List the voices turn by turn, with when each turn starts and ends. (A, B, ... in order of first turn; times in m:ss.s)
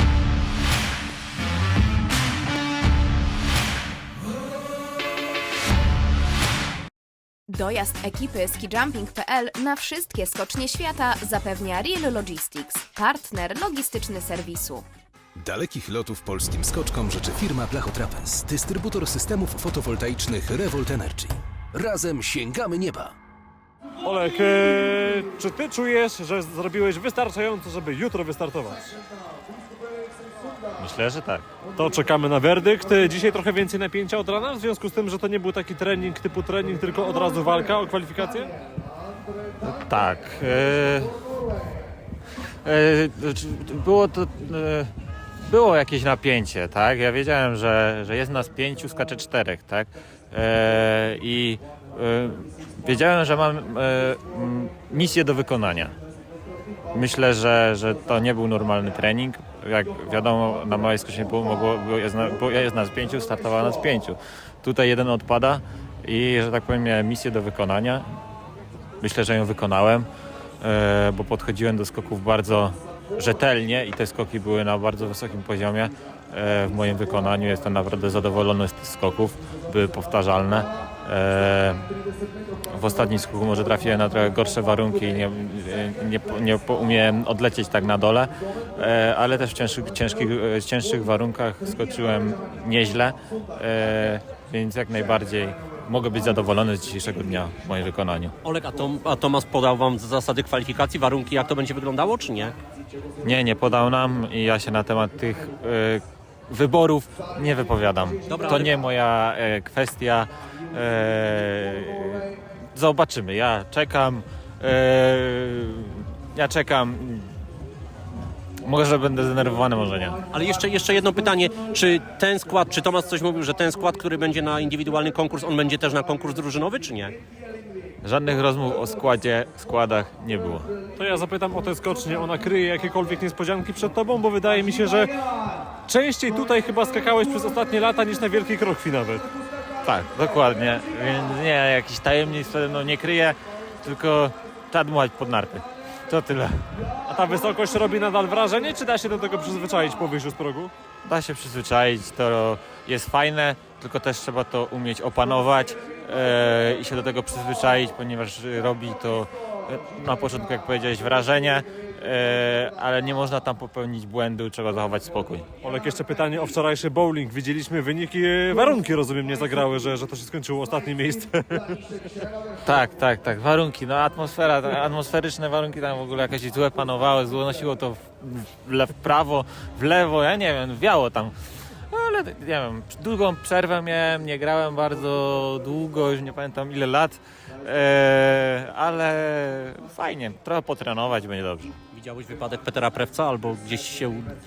0:07.5-0:14.9 A
0:15.4-0:23.1 B
0:24.0-0:28.9 C
0:30.8-0:31.5 D
0:31.8-0:38.5 C
0:39.6-0:41.1 D
0:42.6-0:44.9 D
0:45.4-0:55.9 D
0:56.9-1:08.1 D
1:09.0-1:10.1 D
1:10.6-1:21.9 D
1:22.7-1:38.3 D
1:38.4-1:42.6 E
1:43.2-1:57.3 D
1:48.3-1:48.7 E
1:58.6-2:00.2 D
2:00.3-2:07.2 E
2:08.0-2:10.7 D
2:11.0-2:15.2 C
2:15.9-2:19.2 C
2:19.8-2:26.7 D
2:27.1-2:30.7 C
2:31.0-2:45.5 D
2:45.6-2:51.8 C
2:52.6-3:01.3 D
3:01.9-3:11.7 D
3:11.9-3:14.4 E